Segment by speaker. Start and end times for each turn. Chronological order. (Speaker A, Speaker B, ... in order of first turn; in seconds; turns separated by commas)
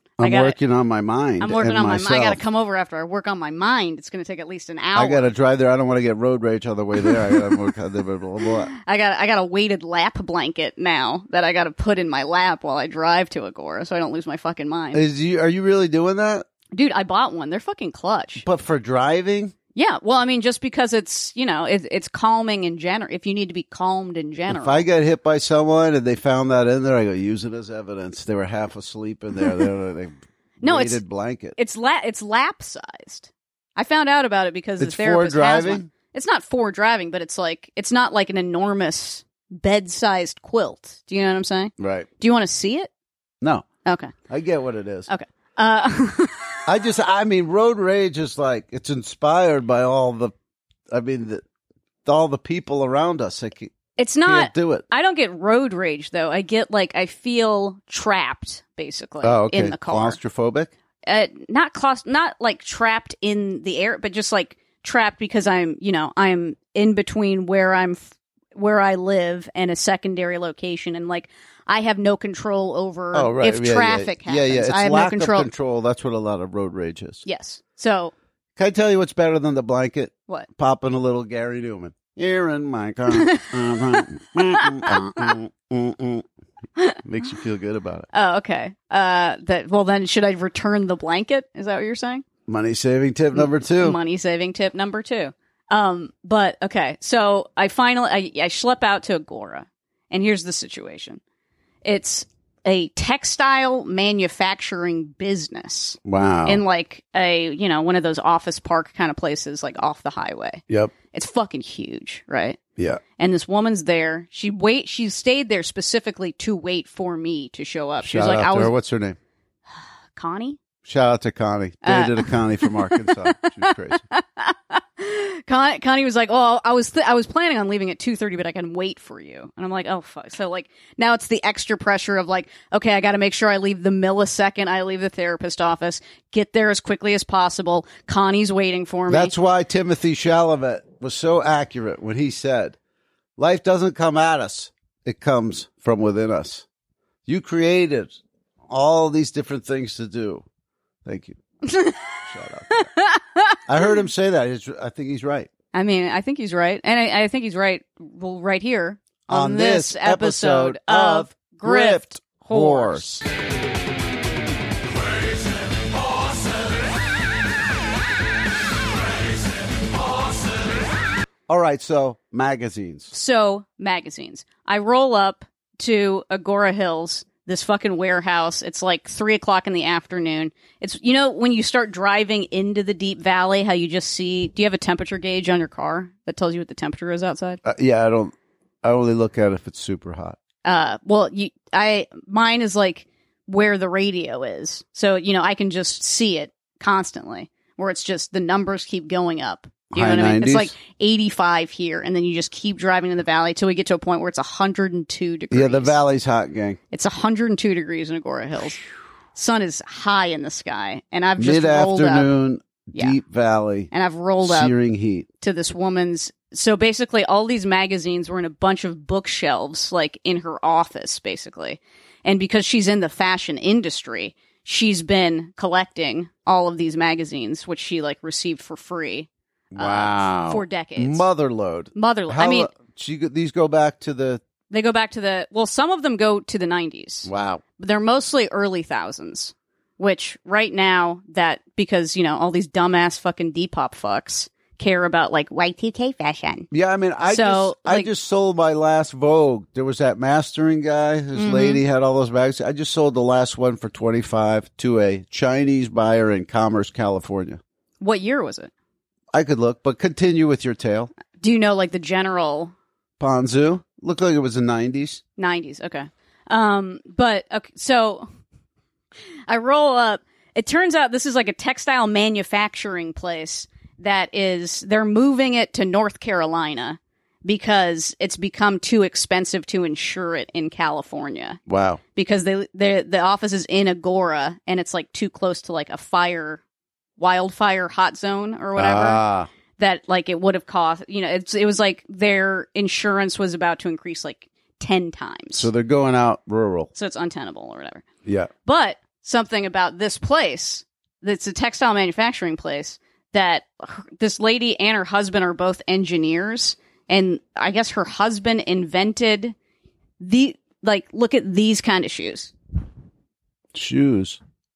Speaker A: 0.2-2.4, Speaker B: 0.2-0.6, Speaker B: 1.4-5.2, Speaker A: 5.0-8.7, Speaker B: 7.0-7.4, Speaker B: 8.7-15.0, Speaker A: 14.9-16.4, Speaker B: 16.7-18.4, Speaker A: 18.4-19.5, Speaker B: 19.8-24.8, Speaker A: 24.5-31.6, Speaker B: 30.6-31.0, Speaker B: 31.6-42.9, Speaker A: 34.8-35.9, Speaker A: 41.8-42.1, Speaker B: 43.9-44.1, Speaker A: 44.3-45.1, Speaker B: 45.1-46.7, Speaker A: 46.7-50.3, Speaker A: 50.9-51.4, Speaker A: 52.0-53.7, Speaker B: 54.0-60.2, Speaker A: 54.3-54.8, Speaker A: 59.2-60.7, Speaker B: 61.1-75.5, Speaker A: 73.1-77.2, Speaker B: 77.2-78.1, Speaker A: 78.6-86.2, Speaker B: 83.1-85.3, Speaker A: 87.0-88.1, Speaker B: 88.1-92.3, Speaker A: 92.5-94.0, Speaker B: 93.3-101.2, Speaker B: 101.8-112.6, Speaker A: 106.0-106.6, Speaker A: 112.8-113.0, Speaker B: 113.2-118.7, Speaker A: 118.0-119.2, Speaker B: 120.2-120.6, Speaker A: 120.8-124.0, Speaker B: 121.8-139.3, Speaker A: 139.1-142.8, Speaker A: 143.4-146.7, Speaker A: 147.3-148.2, Speaker A: 148.7-150.4, Speaker A: 151.1-151.4, Speaker B: 151.7-152.1, Speaker A: 152.2-152.9, Speaker B: 152.7-153.6, Speaker A: 153.7-155.5, Speaker B: 155.7-163.1, Speaker A: 159.3-163.2, Speaker A: 171.5-173.1, Speaker B: 173.1-187.6, Speaker A: 187.6-190.4, Speaker B: 190.7-206.0, Speaker A: 199.9-200.7, Speaker A: 205.5-206.8, Speaker B: 206.9-208.8, Speaker B: 209.3-212.3, Speaker A: 211.4-213.9, Speaker B: 213.9-214.7, Speaker A: 214.4-215.3, Speaker B: 215.4-231.3, Speaker A: 229.7-234.4, Speaker B: 231.9-232.7, Speaker B: 234.7-246.7, Speaker A: 237.2-237.6, Speaker A: 246.7-257.6, Speaker B: 247.3-248.1, Speaker B: 251.4-251.8, Speaker B: 258.0-258.7, Speaker A: 259.3-261.1, Speaker B: 261.4-262.7, Speaker A: 263.2-265.2, Speaker B: 265.4-268.3, Speaker B: 269.5-281.6, Speaker A: 281.7-282.0, Speaker B: 282.1-286.6, Speaker B: 287.2-289.2, Speaker A: 288.8-289.5, Speaker B: 289.8-295.7, Speaker A: 295.6-296.9, Speaker B: 296.9-298.0, Speaker A: 298.2-298.5, Speaker B: 298.6-309.6, Speaker B: 310.2-312.5, Speaker A: 313.7-314.4